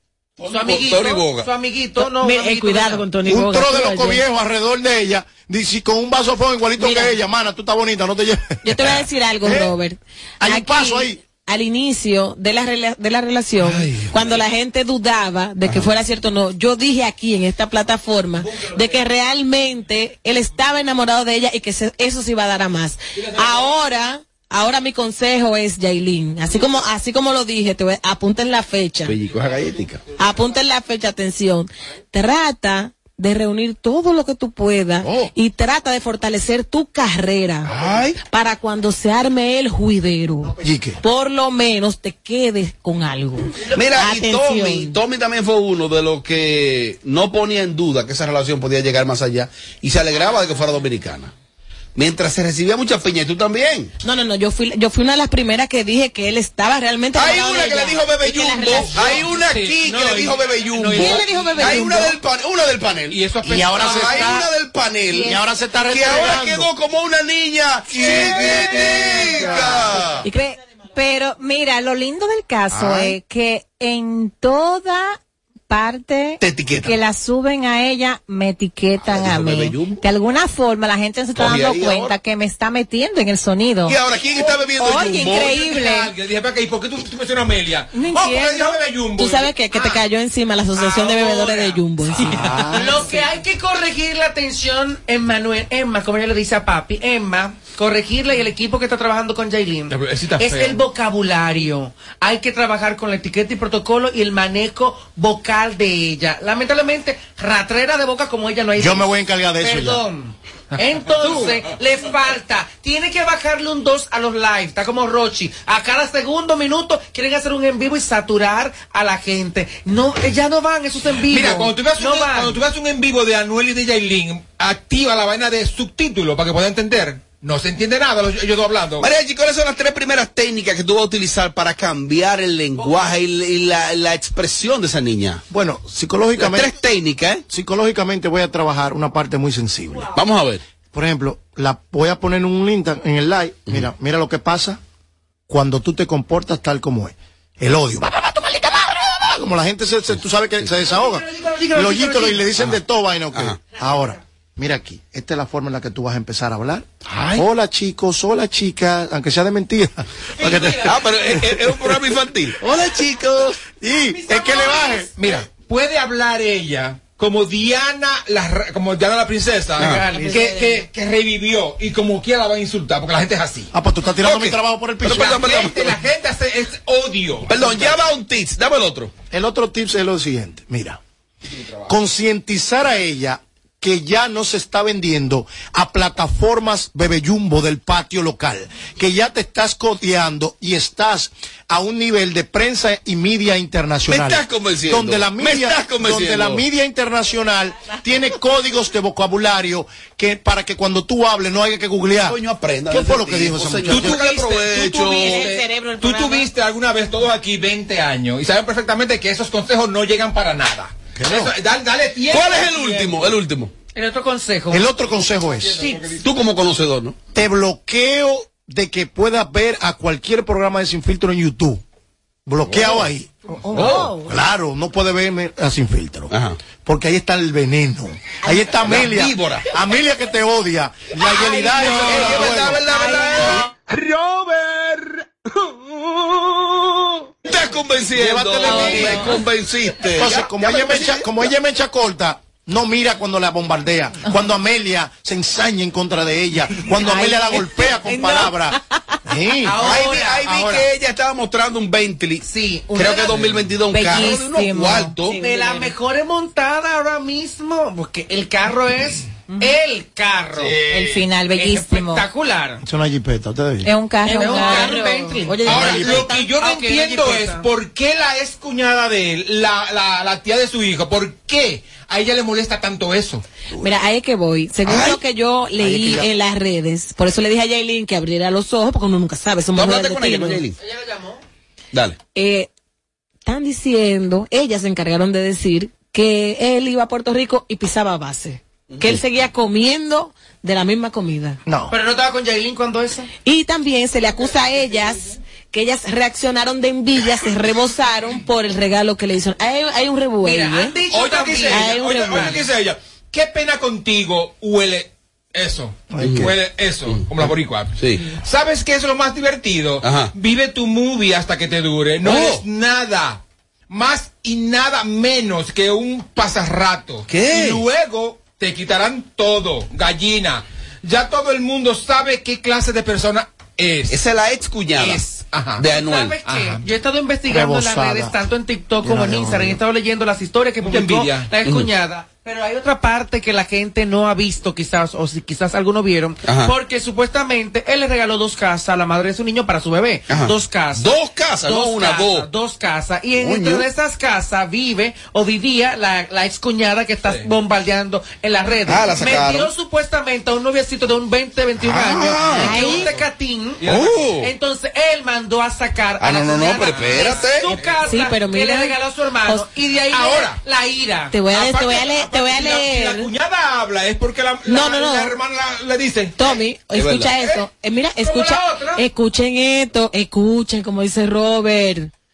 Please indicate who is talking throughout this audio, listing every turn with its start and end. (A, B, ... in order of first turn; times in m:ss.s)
0:00.4-0:01.5 A
0:00.5-0:03.1 B
0:02.0-0:04.2 C
0:02.3-0:02.9 D
0:03.2-0:09.8 E
0:06.8-0:07.1 C
0:08.6-0:29.2 C
0:10.4-0:11.2 E
0:29.0-0:30.0 A
0:30.1-0:45.0 C
0:35.0-0:35.3 A
0:37.6-0:38.2 A
0:40.6-0:41.0 E
0:43.6-0:51.3 A
0:52.0-0:53.9 A
0:54.0-0:59.1 C
0:57.1-1:10.3 A
0:58.9-1:01.8 F
1:00.9-1:02.2 C
1:03.1-1:04.5 F
1:03.4-1:04.4 E
1:05.1-1:06.7 E
1:08.1-1:10.0 E
1:10.2-1:15.2 D
1:12.7-1:13.1 A
1:15.7-1:24.0 D
1:16.4-1:17.0 A
1:19.0-1:20.0 A
1:21.4-1:22.2 A
1:23.8-1:25.6 A
1:24.8-1:25.6 C
1:24.8-1:26.1 D
1:25.3-1:30.0 F
1:28.0-1:28.7 D
1:29.2-1:32.8 C
1:30.8-1:31.8 F
1:32.3-1:32.9 E
1:32.6-2:02.6 B
1:39.9-1:40.8 F
1:48.8-1:50.0 E
1:51.2-1:51.5 F
2:01.2-2:09.1 F
2:09.0-2:15.4 A
2:12.8-2:13.1 B
2:15.5-2:16.7 E
2:16.4-2:17.4 A
2:17.5-2:20.1 E
2:20.1-2:20.6 A
2:20.9-2:24.8 E
2:25.5-2:41.6 E
2:30.9-2:32.5 B
2:33.3-2:33.6 A
2:37.1-2:37.4 A
2:40.4-2:43.6 A
2:43.7-2:45.1 E
2:45.2-2:53.7 F
2:49.8-2:50.6 B
2:53.7-2:55.3 E
2:54.2-2:56.0 A
2:55.1-2:58.0 F
2:57.5-2:59.1 A
2:59.3-3:01.0 E
3:01.9-3:22.4 E
3:14.1-3:16.6 A
3:22.3-3:25.5 A
3:22.9-3:24.2 E
3:23.9-3:33.3 F
3:25.1-3:26.5 C
3:31.2-3:31.5 E
3:32.3-3:33.7 A
3:34.0-3:34.9 B
3:34.7-3:35.8 E
3:35.6-3:36.2 F
3:35.8-3:36.1 B
3:36.2-3:37.2 A
3:37.3-3:41.8 E
3:42.5-3:52.8 E
3:42.7-3:43.0 A
3:43.8-3:44.1 A
3:46.3-3:46.6 A
3:48.8-3:49.7 A
3:51.6-3:53.7 A
3:53.0-3:53.5 C
3:57.5-4:01.3 A
3:58.1-3:59.3 E
3:58.6-3:59.4 C
4:00.1-4:09.8 E
4:07.0-4:08.5 C
4:09.6-4:10.8 B
4:09.8-4:15.4 A
4:12.4-4:13.7 B
4:13.9-4:15.8 C
4:15.4-4:20.8 B
4:20.6-4:21.2 F
4:20.9-4:22.2 C
4:21.0-4:22.2 D
4:21.5-4:22.8 B
4:22.8-4:23.9 E
4:23.8-4:26.4 C
4:24.3-4:25.0 D
4:24.3-4:27.7 B
4:25.6-4:33.4 F
4:25.7-4:26.2 E
4:33.8-4:40.7 C
4:34.8-4:35.2 A
4:35.8-4:36.3 E
4:39.7-4:40.8 A
4:40.8-4:41.4 B
4:42.4-4:42.7 C
4:43.4-4:51.6 C
4:48.9-4:49.2 A
4:51.7-4:51.9 E
4:51.9-4:53.3 B
4:53.4-5:01.0 C
5:00.4-5:02.6 B
5:01.1-5:24.2 F
5:01.7-5:02.5 C
5:06.2-5:06.5 A
5:07.1-5:08.3 A
5:10.0-5:10.3 A
5:12.2-5:12.6 A
5:17.3-5:17.8 A
5:24.1-5:25.2 A
5:25.0-5:25.8 F
5:25.8-5:26.4 A
5:25.8-6:01.4 B
5:26.4-5:26.9 F
5:27.5-5:28.4 E
5:29.0-5:29.8 E
5:30.8-5:31.5 F
5:36.4-5:36.7 A
5:40.3-5:42.5 A
5:43.4-5:43.9 A
5:47.2-5:47.5 F
5:48.9-5:49.7 A
5:51.8-5:52.9 A
5:52.7-5:53.0 C
5:52.9-5:53.2 F
5:53.8-5:54.3 F
5:53.9-5:54.5 A
5:56.2-5:57.7 A
5:56.8-5:58.1 F
5:58.1-5:59.0 C
6:00.1-6:00.6 F
6:01.3-6:03.3 C
6:01.5-6:06.6 F
6:04.7-6:05.4 C
6:06.4-6:12.1 C
6:06.9-6:07.4 A
6:08.2-6:09.0 B